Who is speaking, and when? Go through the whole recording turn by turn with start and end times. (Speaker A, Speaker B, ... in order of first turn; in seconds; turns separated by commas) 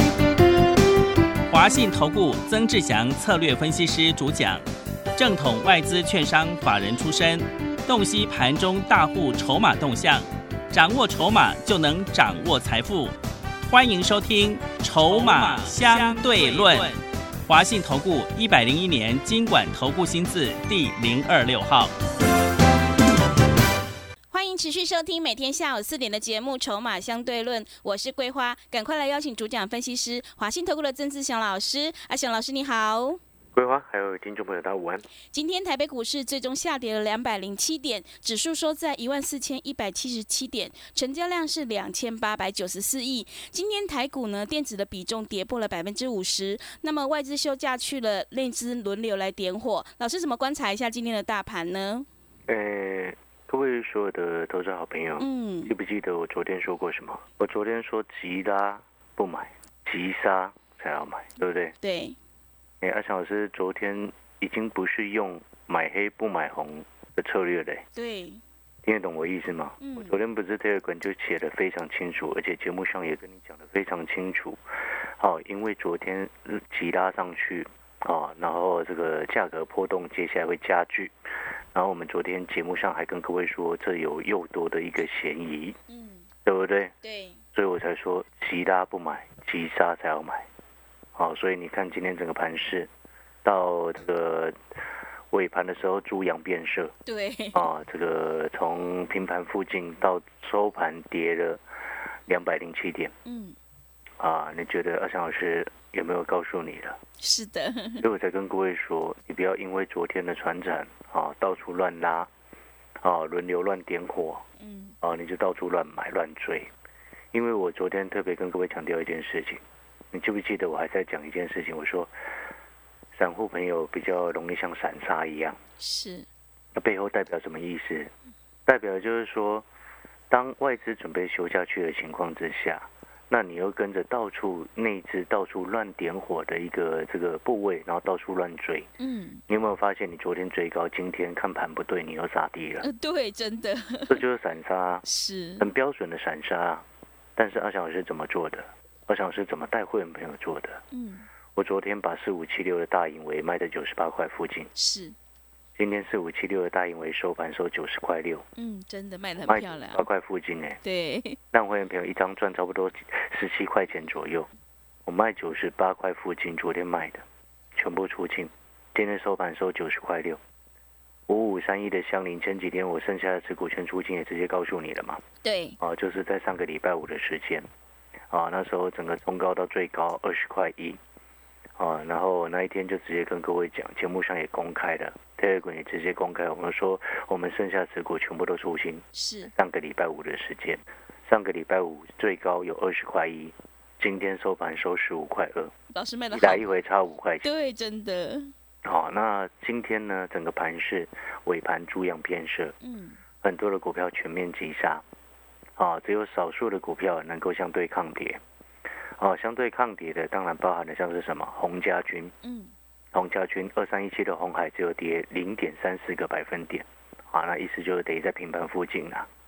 Speaker A: 1.5-4.6, Speaker A: 5.2-13.1, Speaker A: 13.7-21.9, Speaker B: 16.3-16.9, Speaker B: 24.3-33.2, Speaker C: 33.5-35.0, Speaker B: 35.3-52.1, Speaker C: 52.5-61.7, Speaker B: 55.2-55.7, Speaker B: 61.8-62.2, Speaker C: 62.8-67.8, Speaker B: 68.0-68.4, Speaker C: 68.8-74.6, Speaker B: 69.8-70.1, Speaker C: 75.2-81.1, Speaker C: 81.7-85.8, Speaker B: 85.9-86.3, Speaker C: 86.4-86.9, Speaker B: 87.0-87.4, Speaker C: 87.5-90.5, Speaker C: 91.2-92.9, Speaker C: 93.4-94.6, Speaker C: 95.3-96.9, Speaker B: 97.0-97.7, Speaker C: 97.5-101.6, Speaker C: 102.3-103.1, Speaker B: 103.2-103.5, Speaker C: 104.2-107.0, Speaker B: 107.2-108.0, Speaker C: 108.0-112.3, Speaker C: 113.0-114.4, Speaker B: 114.6-115.0, Speaker C: 115.0-116.7, Speaker C: 117.3-119.6, Speaker C: 120.1-122.1, Speaker C: 123.1-125.6, Speaker B: 125.8-126.3, Speaker C: 126.7-128.1, Speaker C: 128.7-129.7, Speaker C: 130.3-138.9, Speaker B: 139.0-139.4, Speaker C: 139.5-142.8, Speaker B: 142.8-144.2, Speaker C: 144.1-145.0, Speaker B: 145.0-145.7, Speaker C: 145.6-146.8, Speaker C: 147.4-150.8, Speaker B: 150.9-151.3, Speaker C: 151.5-154.7, Speaker B: 154.7-155.2, Speaker C: 155.8-158.4, Speaker B: 158.6-160.1, Speaker C: 159.4-160.8, Speaker B: 160.8-161.4, Speaker C: 161.5-164.5, Speaker C: 165.1-167.2, Speaker C: 167.8-170.4, Speaker C: 171.3-175.2, Speaker B: 175.4-175.8, Speaker C: 175.8-177.7, Speaker C: 178.3-181.0, Speaker C: 181.8-195.7, Speaker B: 189.1-189.5, Speaker B: 195.9-196.7, Speaker C: 196.3-197.5, Speaker B: 197.4-198.5, Speaker C: 198.8-202.7, Speaker B: 202.8-203.2, Speaker C: 203.4-205.0, Speaker C: 205.8-208.4, Speaker C: 209.2-212.3, Speaker B: 212.4-212.7, Speaker C: 213.1-219.3